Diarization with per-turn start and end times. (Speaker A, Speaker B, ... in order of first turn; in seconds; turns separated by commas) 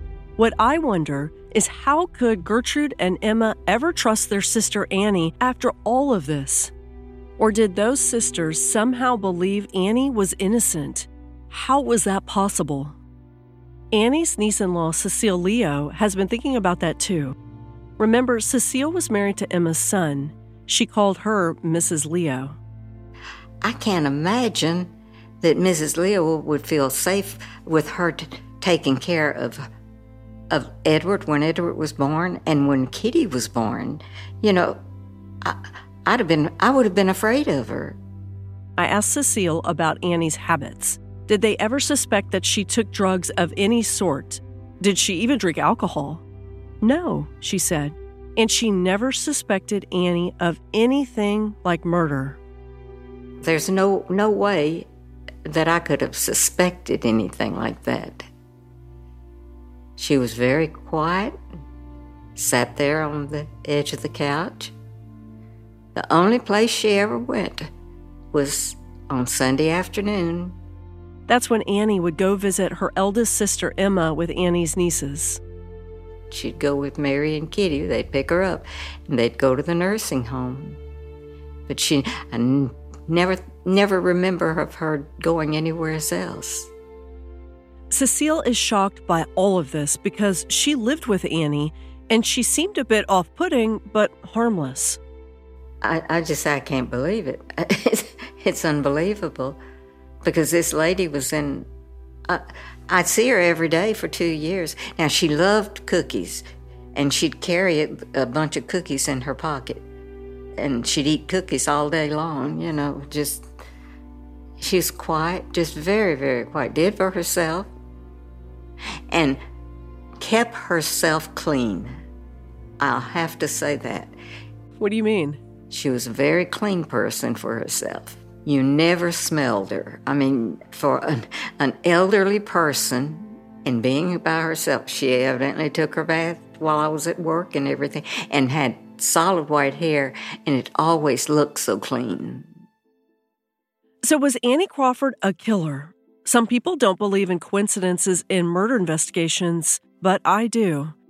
Speaker A: 0.4-6.7, Speaker A: 7.4-12.9, Speaker A: 13.9-17.4, Speaker A: 18.0-22.6, Speaker B: 23.6-29.7, Speaker B: 30.5-34.8, Speaker B: 35.4-38.0, Speaker A: 38.8-46.2, Speaker A: 46.8-52.4, Speaker B: 53.4-54.9, Speaker B: 55.5-58.3, Speaker B: 60.0-61.4, Speaker B: 62.4-64.7, Speaker B: 65.9-67.7, Speaker B: 68.3-70.5, Speaker A: 71.3-75.4, Speaker B: 76.3-80.8, Speaker B: 81.7-86.7, Speaker A: 87.9-95.0, Speaker B: 95.8-99.6, Speaker B: 100.2-101.7, Speaker B: 102.3-106.4, Speaker B: 106.9-109.8, Speaker B: 110.6-113.5, Speaker B: 114.6-117.7, Speaker B: 119.1-119.4, Speaker B: 120.2-121.9, Speaker B: 122.8-124.1, Speaker A: 124.8-125.4, Speaker B: 125.7-142.5, Speaker A: 144.0-150.9